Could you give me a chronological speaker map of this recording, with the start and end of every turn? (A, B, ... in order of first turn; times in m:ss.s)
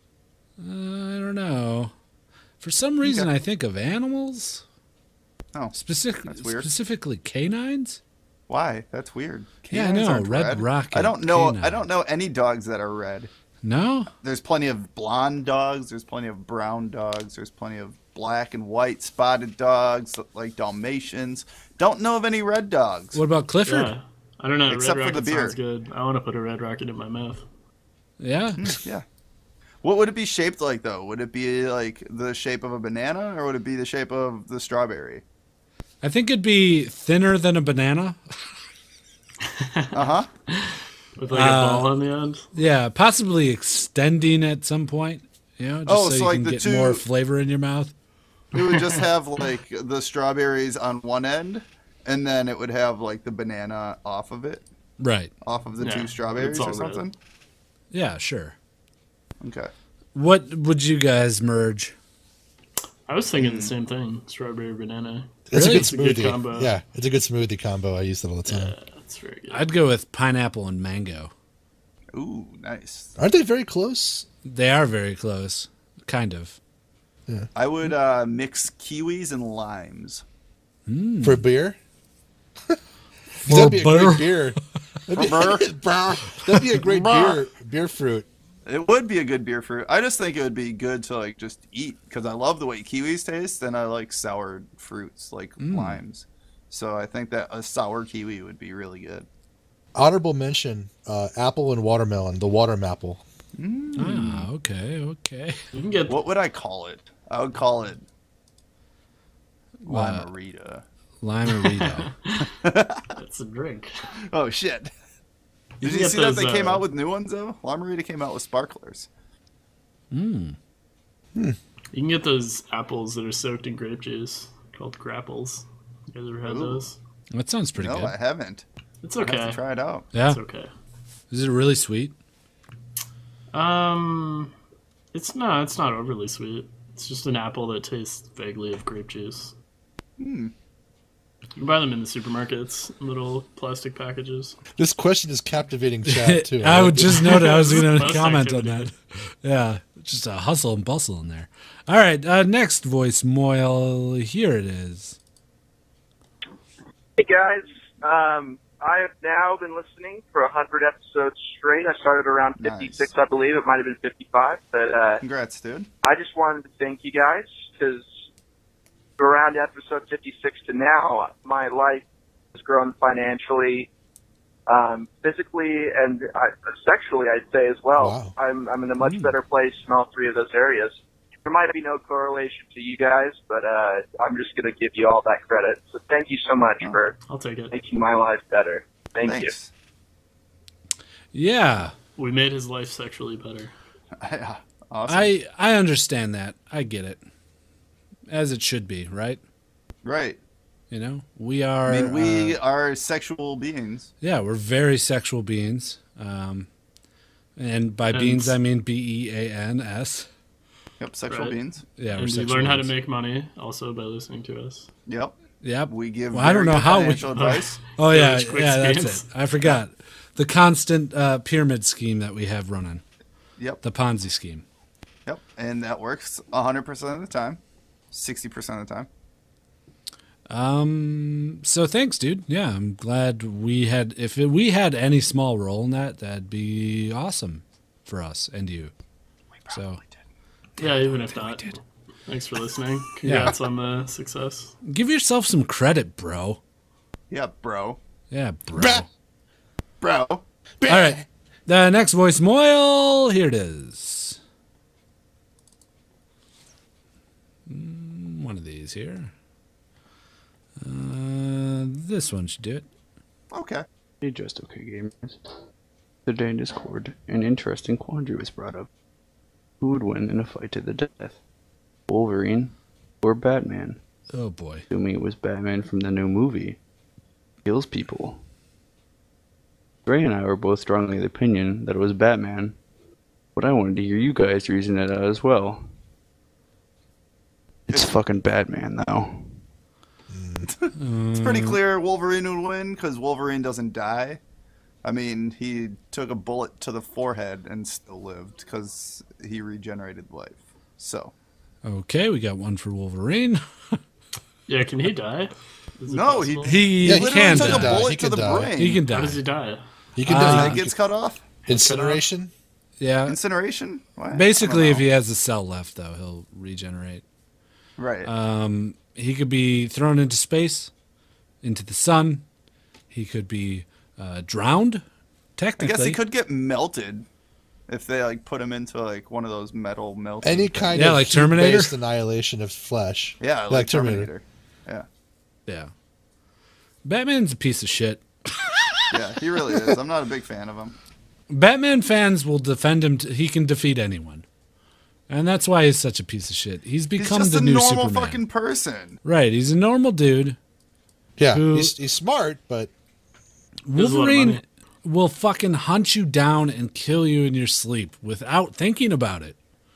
0:00.6-0:01.9 A
0:02.6-0:04.6 A
0:03.0-0:03.3 B
0:05.5-0:06.7 B
0:05.7-0:08.0 A
0:08.5-0:13.3 B
0:09.7-0:11.8 A
0:13.6-0:14.1 A
0:14.2-0:23.2 B
0:23.1-0:23.9 A
0:23.6-0:27.4 C
0:24.7-0:25.6 B
0:28.2-0:28.6 A
0:28.6-0:29.0 B
0:29.8-0:35.2 B
0:36.0-0:38.2 A
0:39.4-0:42.5 C
0:39.9-0:40.3 B
0:41.3-0:41.9 A
0:42.5-0:47.9 A
0:45.9-0:47.0 B
0:48.5-0:54.6 B
0:48.6-0:49.0 C
0:55.0-0:55.3 A
0:55.4-0:57.1 B
0:55.8-0:57.0 C
0:57.9-0:58.5 A
0:59.4-0:59.7 B
1:00.1-1:01.9 A
1:03.1-1:06.7 C
1:03.4-1:03.7 B
1:05.5-1:08.7 D
1:05.5-1:05.9 A
1:08.5-1:09.6 C
1:09.5-1:11.3 A
1:12.1-1:13.1 B
1:13.2-1:14.2 D
1:14.4-1:16.6 A
1:17.6-1:20.2 B
1:20.8-1:21.4 A
1:21.2-1:21.8 D
1:23.4-1:24.4 A
1:23.4-1:28.2 D
1:25.2-1:25.7 B
1:28.6-1:39.2 B
1:35.6-1:36.0 A
1:39.9-1:43.2 D
1:43.6-1:44.5 B
1:44.0-1:45.6 A
1:45.7-1:46.2 C
1:46.1-1:48.0 B
1:49.8-1:50.8 B
1:49.9-1:50.3 A
1:51.2-1:52.1 A
1:51.6-1:52.5 C
1:52.4-1:53.1 B
1:53.2-1:53.9 C
1:54.3-1:54.9 B
1:55.8-1:56.8 C
1:55.8-1:59.1 B
2:00.1-2:00.6 A
2:01.9-2:07.0 C
2:06.4-2:06.8 B
2:07.3-2:08.1 A
2:07.8-2:08.6 B
2:09.0-2:09.6 C
2:09.2-2:10.0 B
2:10.1-2:10.4 A
2:10.1-2:10.7 C
2:11.3-2:12.1 A
2:13.5-2:14.5 C
2:15.1-2:19.5 C
2:20.2-2:20.5 B
2:21.6-2:24.6 C
2:24.8-2:27.4 D
2:26.1-2:35.2 A
2:27.2-2:28.9 C
2:37.2-2:45.2 E
2:42.6-2:43.1 B
2:45.2-2:45.9 B
2:46.0-2:48.1 E
2:49.2-2:53.9 E
2:54.7-3:07.2 E
2:58.0-2:58.3 D
3:07.3-3:07.7 C
3:07.7-3:09.5 E
3:09.2-3:09.7 B
3:11.3-3:11.9 A
3:12.2-3:13.7 C
3:14.2-3:15.3 B
3:15.1-3:17.2 A
3:18.3-3:19.4 A
3:20.0-3:20.4 B
3:20.9-3:22.6 A
3:21.8-3:24.1 B
3:24.2-3:26.7 A
3:27.6-3:30.3 A
3:28.1-3:28.6 C
3:31.0-3:31.8 B
3:31.3-3:31.6 C
3:32.0-3:32.9 A
3:32.1-3:34.9 C
3:35.1-3:35.4 B
3:35.6-3:37.3 A
3:35.9-3:37.7 B
3:37.3-3:39.3 C
3:38.0-3:43.0 A
3:43.8-3:44.6 A
3:45.2-3:47.6 B
3:48.1-3:49.1 B
3:50.5-3:58.9 A
3:59.7-4:00.0 A
4:00.8-4:04.7 C
4:00.8-4:01.6 B
4:03.2-4:03.5 A
4:04.8-4:06.6 A
4:07.3-4:08.0 B
4:08.3-4:09.0 A
4:08.7-4:09.0 D
4:10.0-4:10.4 B
4:10.8-4:11.2 D
4:10.9-4:14.4 A
4:17.7-4:19.3 A
4:20.8-4:22.8 A
4:23.5-4:23.8 B
4:24.2-4:25.4 F
4:26.2-4:28.9 F
4:29.8-4:31.4 F
4:32.1-4:34.0 F
4:34.3-4:34.8 A
4:34.9-4:36.8 F
4:37.6-4:38.4 F
4:40.0-4:42.8 F
4:43.5-4:45.9 F
4:47.9-4:49.6 F
4:50.3-4:50.7 D
4:51.0-4:51.8 A
4:51.4-4:54.4 B
4:55.0-5:01.3 B
5:01.8-5:03.6 A
5:04.7-5:06.8 C
5:06.1-5:09.0 B
5:06.6-5:08.1 A
5:07.0-5:08.7 D
5:08.8-5:09.4 A
5:09.1-5:09.8 C
5:10.2-5:10.9 D
5:10.2-5:10.8 A
5:10.3-5:11.4 B
5:11.6-5:12.2 C
5:11.7-5:12.5 D
5:13.0-5:13.4 A
5:13.3-5:15.0 B
5:14.3-5:17.2 A
5:18.0-5:18.3 B
5:18.2-5:20.9 A
5:21.6-5:22.4 A
5:23.1-5:25.0 A
5:25.6-5:26.2 A
5:25.8-5:27.2 B
5:27.9-5:30.9 B
5:30.4-5:34.3 D
5:30.9-5:31.9 A
5:33.4-5:35.0 B
5:35.7-5:35.9 A
5:37.0-5:38.2 A
5:39.1-5:40.9 B
5:41.5-5:44.4 A
5:45.3-5:48.4 A
5:47.2-5:49.2 B
5:49.2-5:50.6 A
5:51.4-5:52.9 D
5:51.5-5:51.9 A
5:53.9-5:59.6 A
5:53.9-5:54.6 C